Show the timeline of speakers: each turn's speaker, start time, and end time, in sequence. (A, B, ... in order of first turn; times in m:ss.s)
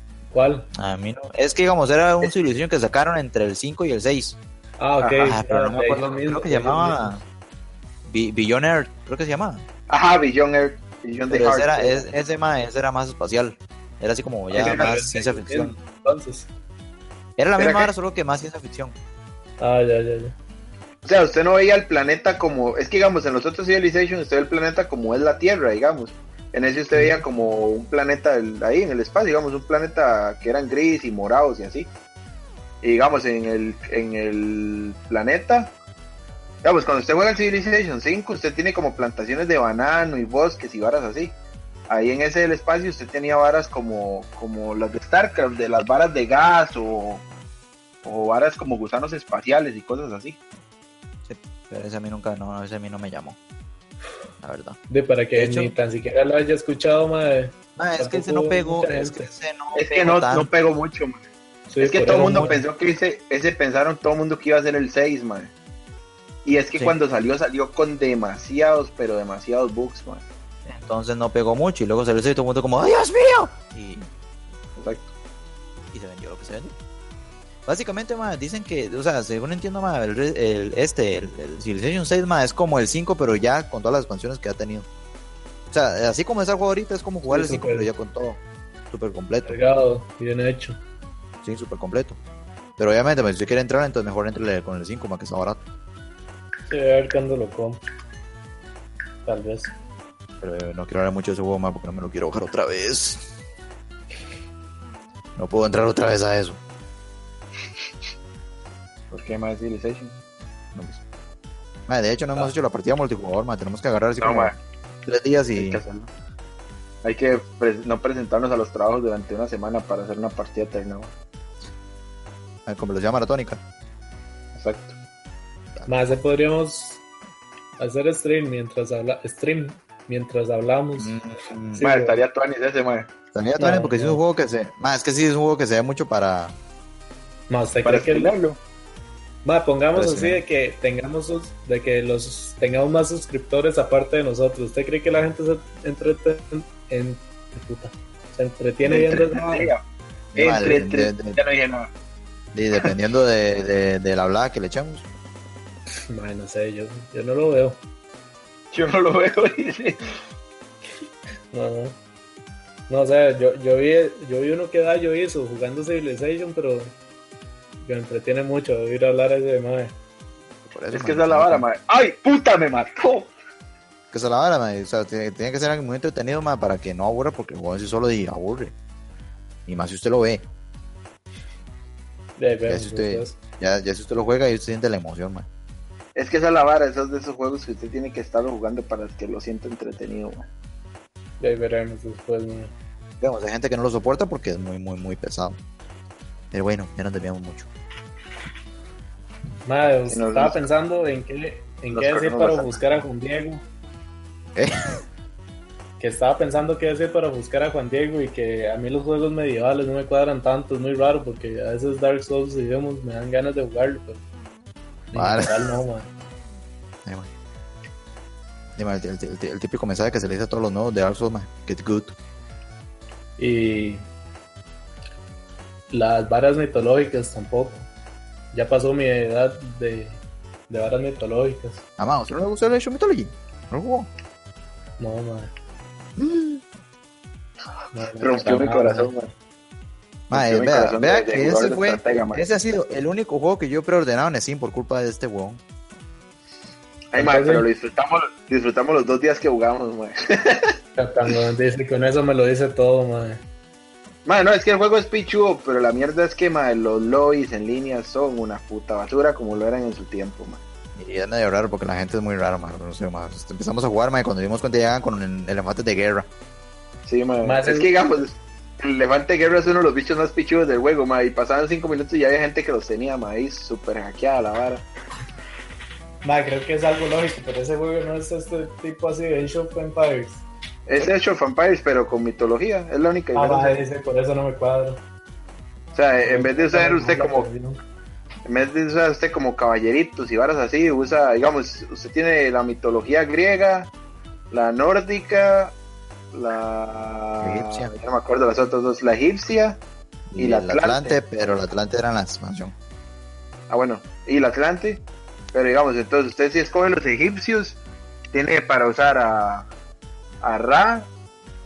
0:00.3-0:00.7 A
0:00.7-0:04.4 B
0:04.8-0:07.2 A
0:05.0-0:05.3 C
0:05.2-0:07.2 B
0:08.0-0:09.6 B
0:09.9-0:12.1 C
0:11.3-0:15.7 B
0:14.5-0:16.5 A
0:14.6-0:15.0 C
0:17.4-0:18.9 B
0:17.6-0:17.9 C
0:19.6-0:20.3 A
0:21.0-0:31.9 C
0:26.9-0:27.2 A
0:32.8-0:35.7 C
0:36.6-0:41.4 C
0:41.9-0:47.2 C
0:48.0-0:50.4 C
0:51.2-0:53.4 B
0:54.4-0:54.8 B
0:54.9-0:59.3 A
0:55.3-0:55.7 B
0:57.8-1:00.5 B
0:59.8-1:01.2 C
1:01.7-1:02.6 A
1:01.8-1:05.5 C
1:06.4-1:10.2 C
1:10.6-1:14.1 B
1:14.8-1:15.1 C
1:15.9-1:16.7 B
1:17.6-1:24.9 B
1:25.7-1:29.6 B
1:27.2-1:27.9 A
1:29.4-1:30.8 A
1:31.4-1:32.2 B
1:32.8-1:35.6 B
1:36.7-1:37.8 A
1:39.2-1:39.7 A
1:40.4-1:43.2 B
1:45.4-1:46.6 B
1:49.1-1:50.1 C
1:50.7-1:51.0 B
1:51.9-1:55.8 B
1:54.2-1:54.6 C
1:55.5-1:56.1 C
1:57.0-2:01.1 C
2:02.6-2:03.6 B
2:04.5-2:05.0 C
2:05.8-2:06.0 B
2:05.9-2:07.0 A
2:07.8-2:11.2 A
2:11.0-2:11.8 B
2:11.7-2:12.2 A
2:11.8-2:13.1 C
2:13.3-2:16.6 B
2:13.6-2:14.2 A
2:17.5-2:18.3 A
2:17.8-2:18.6 C
2:19.4-2:29.7 A
2:19.9-2:20.4 B
2:28.8-2:29.8 C
2:30.3-2:31.4 B
2:30.4-2:31.9 C
2:32.5-2:35.0 B
2:36.1-2:37.8 A
2:38.7-2:40.0 C
2:41.5-2:42.0 A
2:42.9-2:46.9 A
2:47.8-2:49.9 A
2:50.7-2:51.6 B
2:50.9-2:53.3 C
2:54.1-2:58.7 B
2:59.7-3:00.4 B
3:02.4-3:03.4 A
3:02.7-3:05.4 B
3:06.2-3:10.4 C
3:11.4-3:12.7 A
3:13.2-3:15.6 B
3:16.5-3:17.7 B
3:19.6-3:23.6 A
3:20.1-3:20.6 C
3:21.9-3:23.0 C
3:24.5-3:24.9 B
3:26.0-3:34.2 A
3:35.1-3:36.1 A
3:35.1-3:35.6 B
3:37.0-3:37.3 B
3:38.8-3:42.1 B
3:43.4-3:44.1 A
3:45.9-3:47.9 A
3:48.5-3:51.8 A
3:52.0-3:54.1 B
3:55.0-3:55.5 A
3:56.2-3:56.6 B
3:57.9-3:59.1 A
3:58.2-3:59.3 C
4:00.3-4:05.6 B
4:00.3-4:02.4 C
4:07.1-4:10.7 C
4:07.2-4:07.6 A
4:11.0-4:13.4 A
4:14.2-4:20.6 C
4:21.0-4:26.3 B
4:27.0-4:34.8 C
4:27.4-4:27.9 A
4:36.2-4:40.4 A
4:40.9-4:43.8 C
4:43.3-4:45.0 A
4:45.9-4:47.5 C
4:46.2-4:47.8 A
4:48.4-4:53.9 C
4:54.5-4:55.7 C
4:56.3-4:59.8 C
4:57.4-4:57.9 B
5:00.3-5:02.7 B
5:00.4-5:01.2 C
5:03.7-5:07.8 C
5:08.3-5:09.7 C
5:10.4-5:11.1 C